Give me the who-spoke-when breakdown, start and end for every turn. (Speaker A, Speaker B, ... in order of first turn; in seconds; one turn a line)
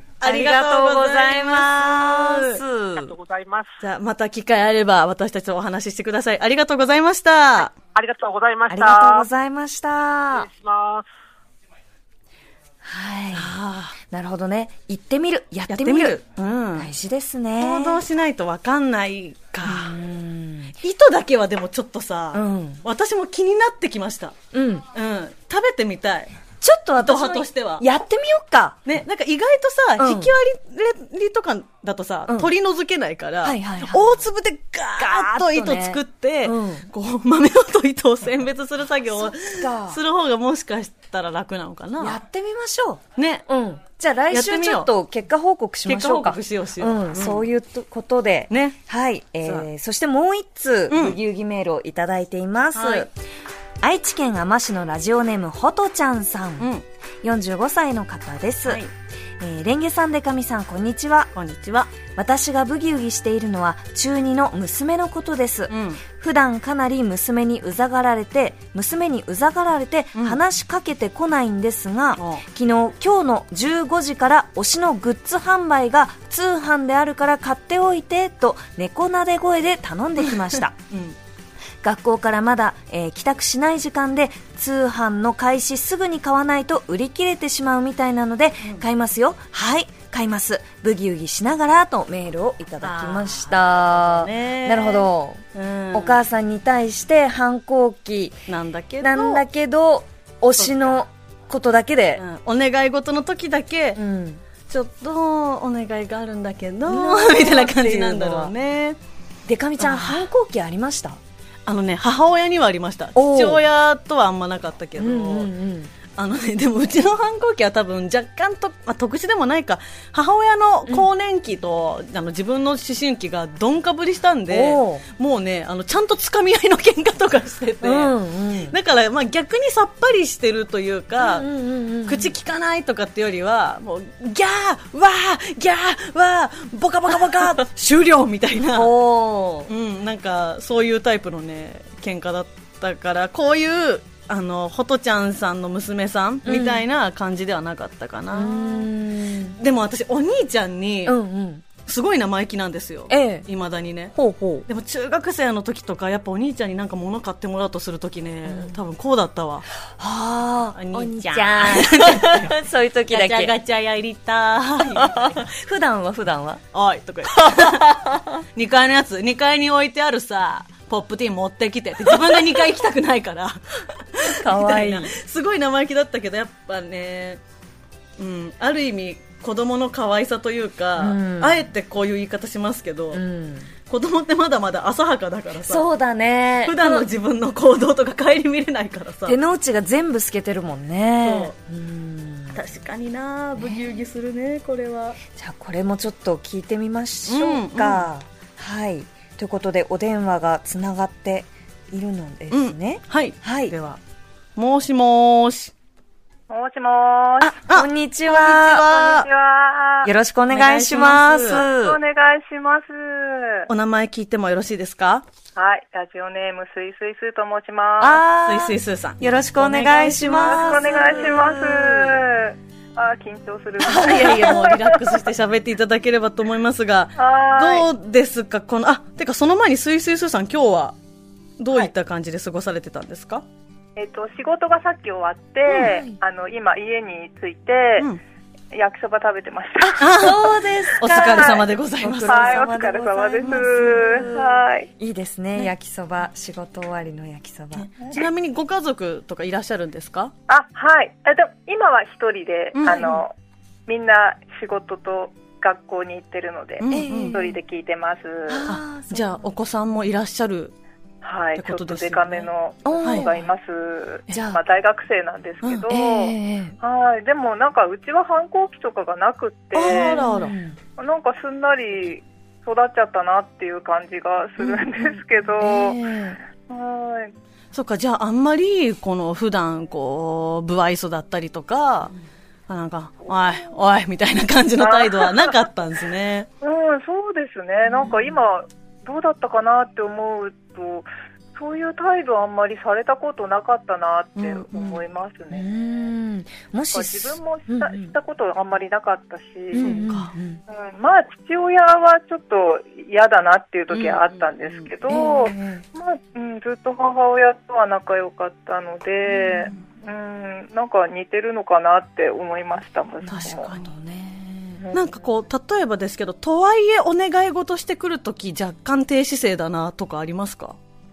Speaker A: 0.2-2.6
Speaker B: 0.2-3.1
Speaker C: 3.0-3.7
Speaker A: 3.8-7.7
Speaker C: 7.9-9.2
Speaker B: 8.7-10.5
Speaker C: 10.3-11.1
Speaker B: 12.8-13.5
Speaker A: 13.3-14.0
Speaker B: 14.1-16.2
Speaker A: 15.7-16.9
Speaker B: 16.8-18.0
Speaker A: 17.6-20.0
Speaker B: 19.6-20.8
Speaker A: 20.8-24.4
Speaker B: 22.3-22.8
Speaker B: 24.5-24.9
Speaker A: 24.9-26.3
Speaker B: 26.6-28.8
Speaker A: 27.0-27.8
Speaker A: 28.9-42.2
Speaker B: 30.0-30.3
Speaker B: 33.4-34.1
Speaker B: 35.0-36.9
Speaker B: 39.1-40.0
Speaker B: 42.0-53.1
Speaker A: 43.2-43.5
Speaker A: 44.3-44.9
Speaker A: 45.9-47.4
Speaker A: 48.5-48.8
Speaker A: 50.9-51.2
Speaker A: 52.7-53.1
Speaker B: 53.8-56.7
Speaker A: 56.6-56.8
Speaker B: 57.2-58.8
Speaker A: 58.6-58.9
Speaker B: 59.4-61.3
Speaker A: 61.3-61.9
Speaker B: 62.1-80.8
Speaker A: 65.7-66.0
Speaker A: 70.1-70.4
Speaker A: 72.2-72.4
Speaker A: 80.2-81.1
Speaker B: 81.8-98.4
Speaker A: 92.8-96.2
Speaker A: 98.5-99.4
Speaker B: 99.0-102.2
Speaker A: 100.6-101.0
Speaker A: 102.2-104.0
Speaker B: 104.0-104.4
Speaker A: 104.7-109.0
Speaker B: 106.8-108.5
Speaker B: 109.5-111.2
Speaker A: 109.8-110.3
Speaker A: 111.7-115.5
Speaker B: 113.1-113.6
Speaker B: 115.0-115.9
Speaker A: 116.2-128.2
Speaker B: 124.5-125.0
Speaker B: 127.8-128.7
Speaker A: 128.7-131.4
Speaker B: 131.2-132.3
Speaker A: 132.1-138.9
Speaker B: 138.7-139.7
Speaker A: 139.7-148.9
Speaker B: 146.4-146.8
Speaker B: 148.3-149.6
Speaker A: 149.6-151.2
Speaker B: 151.1-151.6
Speaker A: 151.8-154.2
Speaker B: 153.1-153.4
Speaker B: 154.1-154.7
Speaker A: 154.7-159.7
Speaker B: 158.4-158.8
Speaker B: 160.0-163.5
Speaker A: 160.7-162.6
Speaker A: 163.1-165.5
Speaker B: 164.9-166.6
Speaker A: 166.7-177.4
Speaker B: 167.3-168.3
Speaker B: 174.2-175.1
Speaker A: 178.2-183.2
Speaker B: 181.0-181.6
Speaker B: 183.1-183.7
Speaker A: 183.9-185.8
Speaker B: 185.7-187.1
Speaker A: 186.6-189.3
Speaker B: 189.2-192.6
Speaker A: 191.2-191.5
Speaker A: 192.5-195.2
Speaker B: 193.6-193.8
Speaker B: 195.3-203.7
Speaker A: 197.3-198.1
Speaker A: 202.5-204.0
Speaker A: 204.6-205.7
Speaker D: 206.5-207.6
Speaker B: 207.4-208.8
Speaker A: 207.7-209.3
Speaker D: 208.6-210.1
Speaker B: 210.0-212.0
Speaker A: 210.5-211.6
Speaker D: 211.5-213.7
Speaker A: 213.7-215.2
Speaker D: 215.6-218.2
Speaker B: 218.0-222.2
Speaker A: 218.4-221.4
Speaker D: 220.3-225.0
Speaker A: 223.8-231.0
Speaker B: 224.0-224.6
Speaker D: 227.2-227.9
Speaker A: 231.6-233.4
Speaker D: 233.9-238.1
Speaker B: 235.7-236.1
Speaker D: 238.7-240.0
Speaker B: 239.8-248.3
Speaker A: 240.0-242.6
Speaker D: 241.1-241.6
Speaker D: 242.3-244.9
Speaker A: 247.8-250.3
Speaker D: 250.5-253.3
Speaker A: 252.7-253.2
Speaker D: 253.9-258.7
Speaker A: 256.8-257.4
Speaker B: 256.9-257.5
Speaker B: 258.5-259.5
Speaker A: 258.6-260.7
Speaker D: 261.2-270.3
Speaker A: 261.6-262.5
Speaker B: 262.8-263.5
Speaker B: 264.3-264.6
Speaker B: 265.9-266.8
Speaker A: 269.7-270.5
Speaker B: 269.8-270.8
Speaker D: 271.0-276.0
Speaker B: 275.6-276.4
Speaker D: 276.7-277.3
Speaker A: 277.7-282.1
Speaker A: 282.7-286.5
Speaker D: 284.8-285.6
Speaker D: 286.6-295.7
Speaker B: 287.9-288.3
Speaker A: 294.4-294.9
Speaker B: 295.5-298.1
Speaker D: 296.9-300.0
Speaker B: 299.7-300.6
Speaker A: 299.7-300.3
Speaker D: 300.7-313.7
Speaker A: 303.9-305.1
Speaker B: 305.1-305.8
Speaker B: 309.4-309.7
Speaker A: 313.3-313.9
Speaker B: 313.3-314.8
Speaker A: 314.9-320.8